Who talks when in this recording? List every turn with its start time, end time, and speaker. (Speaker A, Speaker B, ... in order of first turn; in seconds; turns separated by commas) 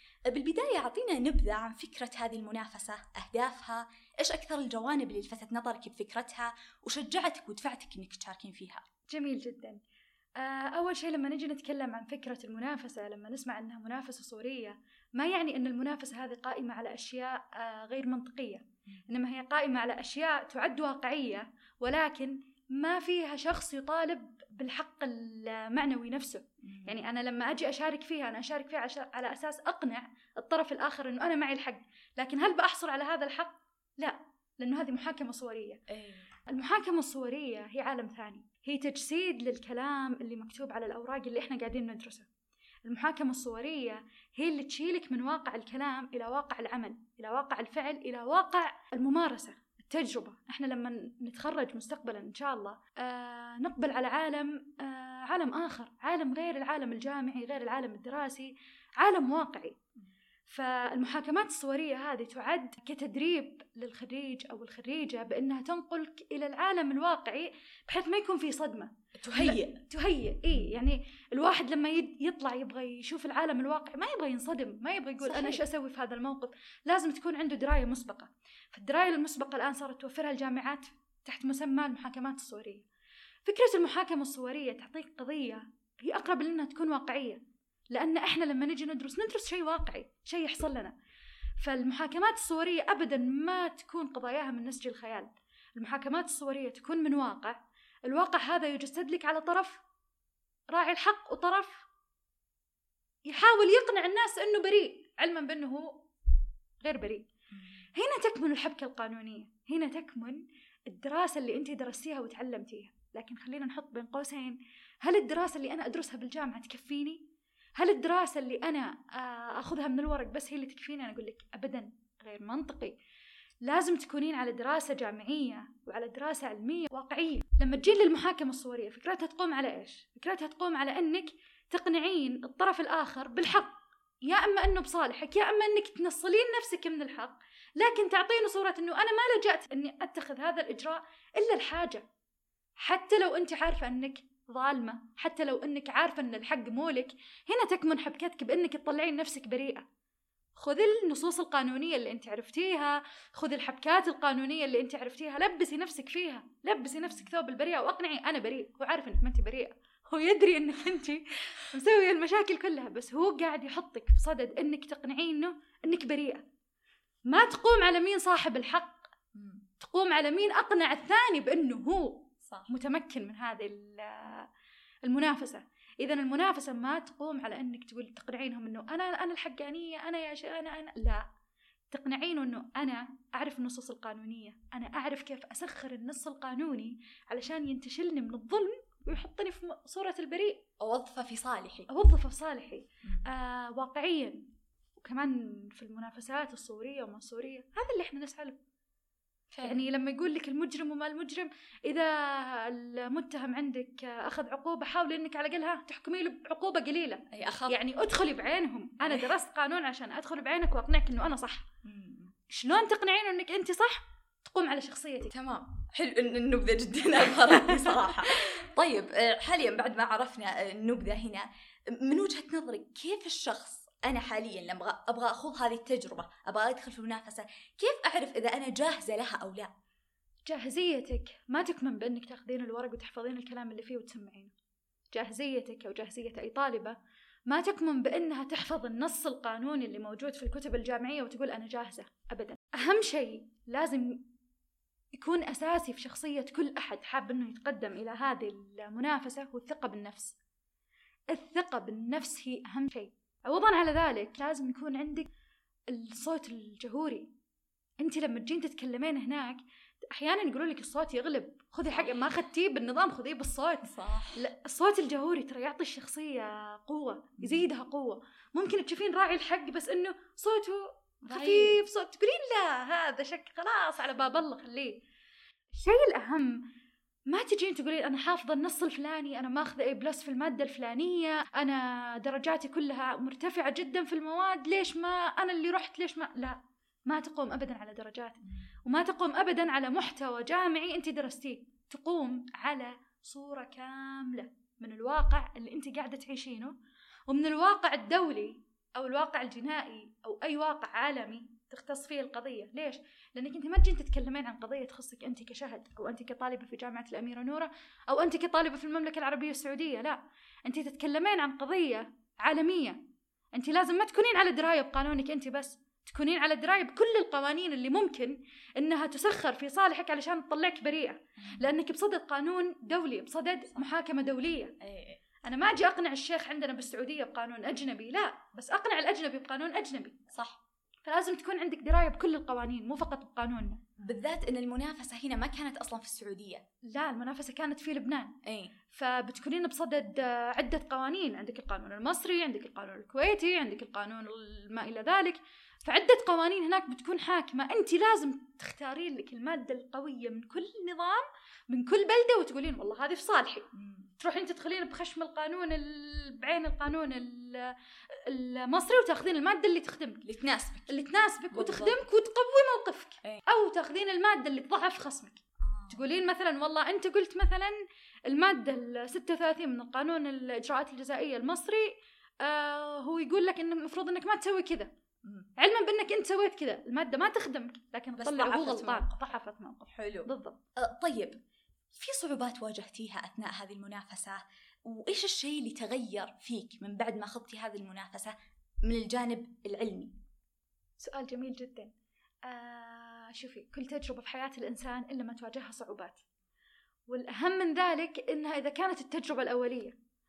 Speaker A: 0.3-8.9, Speaker B: 9.1-9.8, Speaker B: 10.4-35.8, Speaker A: 26.6-27.0, Speaker A: 35.9-36.3, Speaker B: 36.5-42.3, Speaker B: 42.9-59.8, Speaker B: 60.5-82.9, Speaker A: 69.2-69.8, Speaker A: 75.2-75.6, Speaker B: 83.5-87.4, Speaker B: 87.9-90.9, Speaker B: 91.6-99.8, Speaker B: 100.7-101.9, Speaker B: 103.3-106.0, Speaker B: 106.8-107.3, Speaker A: 107.5-107.8, Speaker B: 107.9-117.2, Speaker B: 117.8-123.0, Speaker B: 123.7-133.7, Speaker B: 134.3-142.0, Speaker B: 142.8-149.8, Speaker B: 150.6-166.4, Speaker B: 167.3-169.1, Speaker A: 169.3-169.6, Speaker B: 169.8-174.5, Speaker B: 175.1-181.2, Speaker B: 181.9-190.6, Speaker A: 190.8-191.9, Speaker B: 191.9-198.6, Speaker A: 199.5-199.8, Speaker B: 199.6-211.7, Speaker A: 207.3-207.8, Speaker A: 209.0-209.3, Speaker A: 211.8-212.3, Speaker B: 212.5-215.3, Speaker A: 215.3-229.7, Speaker B: 230.5-234.5, Speaker B: 235.1-237.0, Speaker B: 237.5-244.3, Speaker B: 245.2-250.4, Speaker B: 251.3-255.3, Speaker B: 255.9-257.3, Speaker B: 258.0-274.9, Speaker A: 261.9-262.3, Speaker A: 263.9-264.4, Speaker A: 267.4-267.7, Speaker A: 271.3-271.8, Speaker B: 275.8-276.6, Speaker B: 277.3-296.8, Speaker B: 297.3-313.0, Speaker B: 313.5-324.7, Speaker A: 321.4-321.7, Speaker A: 324.8-325.2, Speaker B: 325.4-330.2, Speaker A: 330.3-330.6, Speaker B: 331.1-333.8, Speaker A: 334.0-336.6, Speaker B: 336.9-338.4, Speaker A: 338.4-338.7, Speaker B: 338.9-353.7, Speaker A: 353.8-354.1, Speaker B: 354.2-360.3, Speaker A: 360.3-360.9, Speaker B: 360.9-367.7, Speaker A: 361.5-362.0, Speaker A: 365.6-366.0, Speaker B: 368.3-371.9, Speaker B: 372.4-374.9, Speaker A: 375.2-375.5, Speaker B: 375.6-380.6, Speaker A: 378.2-379.2, Speaker A: 379.9-381.4, Speaker A: 381.9-390.1, Speaker B: 391.0-391.9, Speaker B: 392.5-396.2, Speaker B: 397.1-400.0